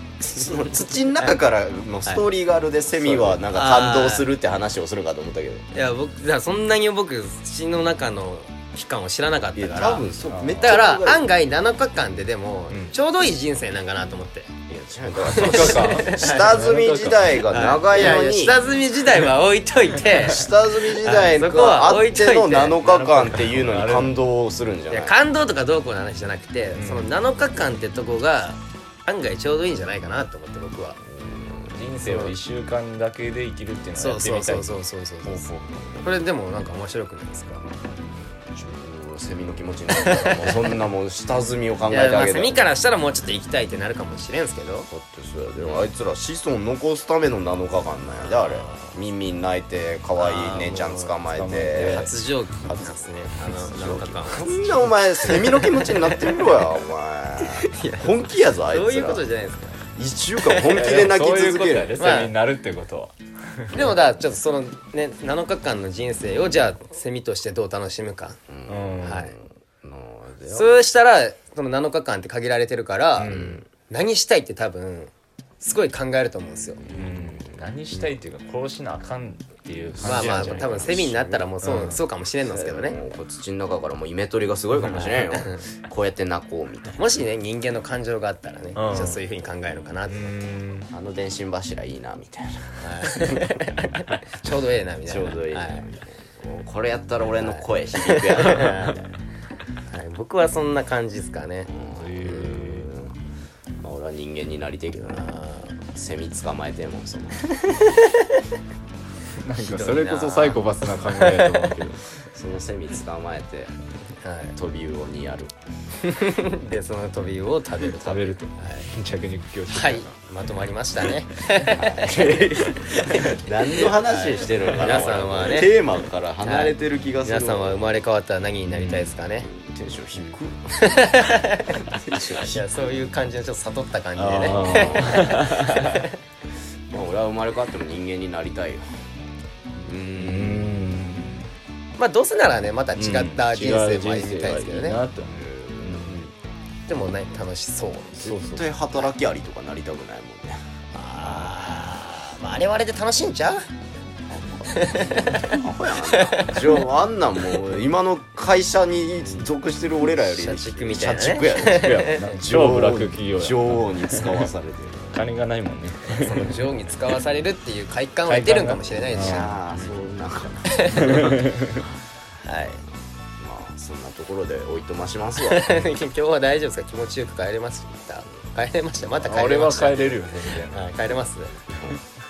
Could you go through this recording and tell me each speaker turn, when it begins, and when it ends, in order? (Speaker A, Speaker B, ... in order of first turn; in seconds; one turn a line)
Speaker A: 0.2-5.6
Speaker B: 3.0-3.4
Speaker C: 3.5-4.3
Speaker C: 5.7-10.1
Speaker A: 9.5-11.2
Speaker B: 10.3-10.7
Speaker C: 10.6-14.5
Speaker A: 14.7-18.6
Speaker B: 15.2-17.4
Speaker C: 15.3-16.6
Speaker C: 17.5-23.2
Speaker A: 20.2-25.1
Speaker B: 22.9-24.1
Speaker C: 24.9-31.0
Speaker B: 26.8-27.1
Speaker A: 31.1-32.3
Speaker B: 31.7-34.7
Speaker C: 34.0-35.5
Speaker B: 35.2-35.7
Speaker C: 36.0-37.7
Speaker A: 38.5-42.6
Speaker C: 39.9-40.8
Speaker C: 41.9-44.9
Speaker A: 44.9-52.1
Speaker C: 45.6-45.9
Speaker C: 48.2-49.0
Speaker C: 50.2-51.2
Speaker B: 51.3-52.1
Speaker C: 51.7-56.6
Speaker A: 52.6-59.3
Speaker C: 57.4-59.8
Speaker A: 60.0-62.2
Speaker C: 60.4-61.0
Speaker B: 60.6-63.9
Speaker C: 62.0-62.4
Speaker C: 63.7-68.4
Speaker A: 68.5-70.8
Speaker B: 68.7-69.2
Speaker C: 69.0-69.3
Speaker C: 70.5-76.8
Speaker B: 73.2-73.6
Speaker A: 73.2-73.7
Speaker A: 76.8-77.6
Speaker B: 76.9-80.9
Speaker A: 79.9-81.5
Speaker C: 80.0-83.0
Speaker B: 81.6-82.0
Speaker A: 82.5-87.0
Speaker C: 84.8-85.6
Speaker C: 87.0-90.4
Speaker B: 88.7-89.2
Speaker B: 90.1-90.9
Speaker A: 90.9-93.4
Speaker C: 92.8-95.8
Speaker A: 95.1-99.2
Speaker C: 97.4-99.0
Speaker C: 99.9-101.7
Speaker A: 101.7-103.2
Speaker B: 101.9-102.9
Speaker A: 103.8-105.3
Speaker C: 105.1-105.8
Speaker A: 105.9-107.5
Speaker C: 107.6-108.4
Speaker B: 109.4-112.2
Speaker C: 109.5-111.8
Speaker A: 112.3-113.7
Speaker C: 114.2-114.5
Speaker A: 114.5-115.5
Speaker C: 116.0-118.9
Speaker B: 117.9-120.2
Speaker C: 119.7-122.3
Speaker A: 121.6-128.0
Speaker B: 122.1-123.4
Speaker C: 123.7-125.8
Speaker C: 126.4-129.5
Speaker B: 128.7-129.1
Speaker A: 129.4-130.7
Speaker C: 130.2-131.8
Speaker A: 131.8-132.7
Speaker C: 132.3-136.1
Speaker B: 134.2-136.0
Speaker A: 134.2-135.4
Speaker A: 136.9-139.0
Speaker A: 139.8-140.8
Speaker B: 140.2-141.5
Speaker C: 142.0-145.0
Speaker B: 143.0-146.2
Speaker A: 145.3-146.2
Speaker C: 146.9-148.3
Speaker A: 148.1-150.6
Speaker B: 148.2-148.7
Speaker C: 150.9-153.7
Speaker B: 151.2-151.5
Speaker A: 154.3-165.2
Speaker C: 154.7-156.8
Speaker C: 160.2-162.3
Speaker B: 161.7-164.5
Speaker B: 165.1-166.7
Speaker C: 166.2-170.0
Speaker B: 168.2-169.5
Speaker A: 169.1-171.1
Speaker C: 170.7-171.4
Speaker B: 171.0-171.7
Speaker C: 172.4-172.8
Speaker A: 173.4-175.7
Speaker C: 175.4-181.6
Speaker B: 179.2-180.8
Speaker A: 181.7-182.0